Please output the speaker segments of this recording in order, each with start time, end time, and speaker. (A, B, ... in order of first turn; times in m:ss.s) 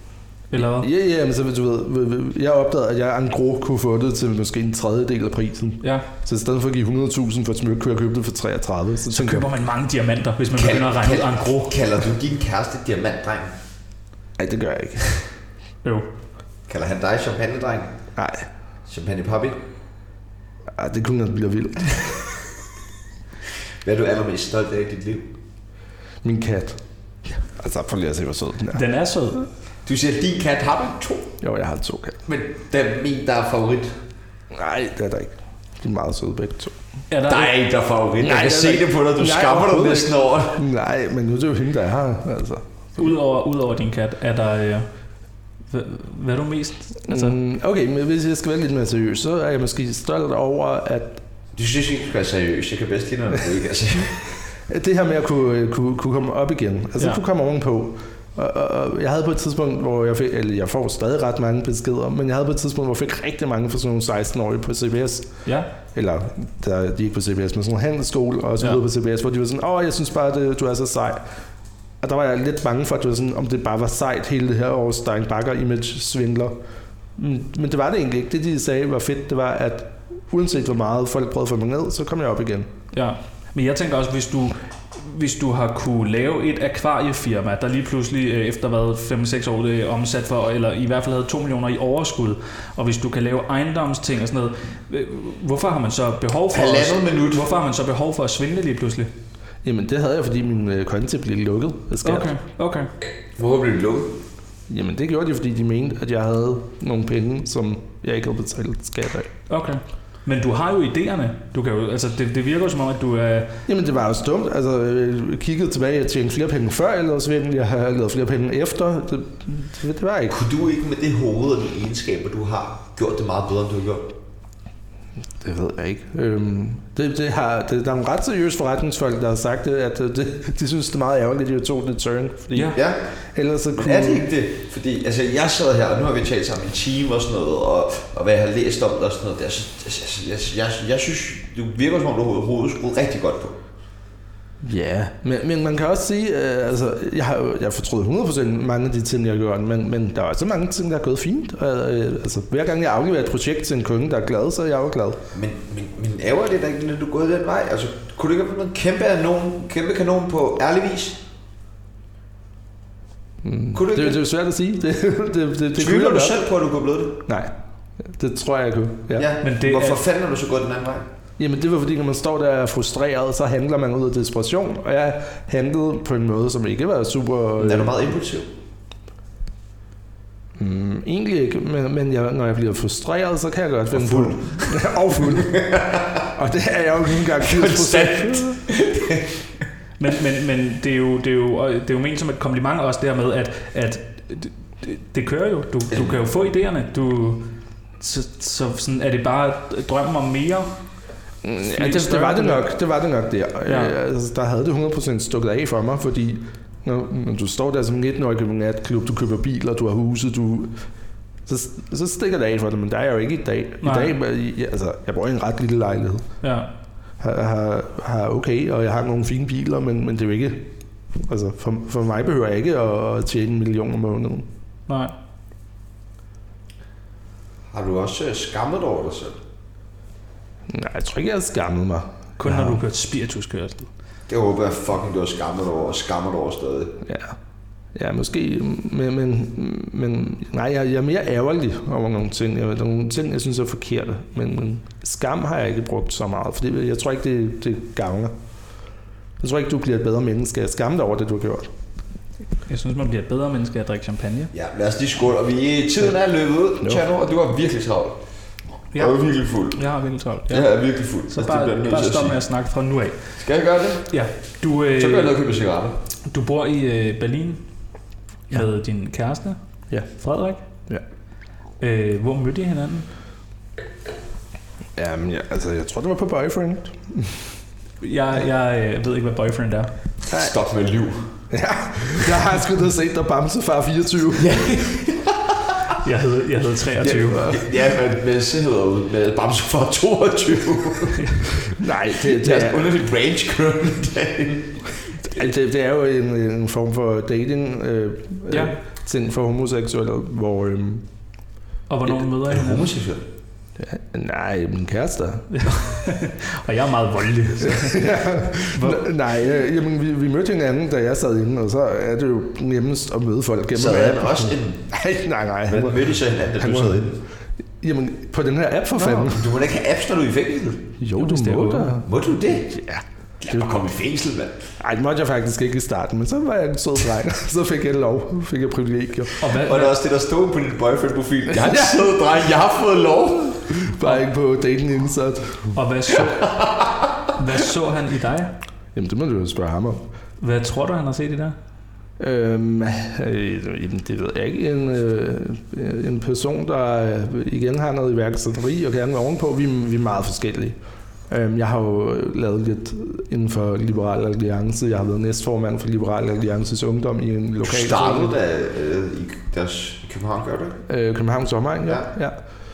0:00.5-0:00.9 A
0:00.6-0:09.5 B
0:09.1-0:11.8 A
0:10.5-0:13.5 C
0:14.4-0:15.1 B
0:16.7-0:17.9 C
0:18.2-0:18.5 B
0:18.9-0:19.6 C
0:20.7-0:22.4 B
0:23.8-0:25.3 C
0:26.2-0:28.8 B
0:28.7-0:29.5 A
0:29.8-0:31.3 C
0:31.4-0:32.2 B
0:32.3-0:34.0 C
0:34.5-0:36.8 B
0:37.1-0:37.5 A
0:37.3-0:40.6 C
0:38.2-0:43.0 B
0:43.0-0:44.9 A
0:45.7-0:47.4 A
0:47.1-0:51.2 B
0:51.6-0:54.3 C
0:54.7-1:05.3 B
1:05.9-1:11.2 B
1:12.0-1:16.6 B
1:17.2-1:22.7 B
1:22.9-1:39.1 A
1:36.5-1:37.5 C
1:39.6-1:42.3 B
1:42.0-1:42.9 A
1:43.4-1:44.2 C
1:44.7-1:49.3 B
1:49.5-1:53.6 A
1:53.7-2:00.3 B
2:00.3-2:04.1 C
2:05.4-2:12.8 B
2:12.7-2:13.0 C
2:13.3-2:14.3 B
2:13.7-2:23.6 C
2:24.6-2:35.2 B
2:35.3-2:41.2 C
2:43.4-2:46.4 B
2:43.7-2:44.2 C
2:45.7-2:47.2 C
2:47.2-2:49.3 B
2:49.1-2:51.1 C
2:49.4-2:50.0 A
2:51.4-2:58.0 B
2:57.6-2:58.5 C
3:00.6-3:05.6 B
3:03.9-3:06.3 C
3:06.3-3:08.6 B
3:07.3-3:09.3 C
3:10.0-3:20.7 A
3:21.4-3:30.8 B
3:21.7-3:22.7 A
3:23.6-3:24.0 A
3:31.4-3:36.3 B
3:33.8-3:34.1 A
3:36.4-3:36.7 A
3:37.2-3:44.5 B
3:44.9-3:45.1 A
3:47.7-3:49.4 C
3:50.7-3:52.8 B
3:52.4-3:53.9 A
3:54.3-3:57.0 C
3:57.0-3:57.4 B
3:57.9-4:08.3 B
4:09.4-4:11.7 B
4:12.6-4:14.5 A
4:14.5-4:18.2 C
4:18.9-4:19.2 A
4:18.9-4:19.8 C
4:19.7-4:20.7 A
4:20.5-4:22.4 C
4:21.3-4:23.4 A
4:23.4-4:24.1 C
4:24.1-4:25.4 A
4:24.9-4:26.0 C
4:26.3-4:27.6 A
4:28.5-4:29.6 A
4:30.1-4:30.6 A
4:31.8-4:33.1 A
4:35.0-4:37.5 B
4:38.0-4:39.9 A
4:40.3-4:41.3 C
4:41.5-4:44.7 B
4:44.4-4:45.8 C
4:46.0-4:47.5 A
4:47.0-4:51.3 C
4:47.0-4:47.6 B
4:51.7-4:52.9 B
4:52.2-4:54.9 C
4:55.2-5:01.1 B
4:58.5-4:58.7 A
5:01.9-5:02.9 A
5:02.5-5:03.2 C
5:03.8-5:05.9 B
5:05.5-5:09.1 A
5:07.6-5:17.1 B
5:13.7-5:14.8 C
5:15.7-5:17.2 C
5:17.8-5:19.5 B
5:19.0-5:20.9 C
5:21.0-5:22.0 B
5:21.2-5:22.0 A
5:22.0-5:22.8 C
5:22.7-5:23.7 B
5:23.4-5:24.6 C
5:24.8-5:29.4 B
5:29.4-5:30.0 A
5:29.5-5:33.7 C
5:31.5-5:32.0 B
5:33.6-5:35.8 B
5:35.7-5:36.6 A
5:36.4-5:37.3 C
5:37.3-5:38.6 A
5:38.9-5:40.0 B
5:40.4-5:41.6 A
5:42.2-5:50.8 B
5:51.3-5:58.4 B
5:57.6-6:00.8 C
6:00.9-6:02.4 B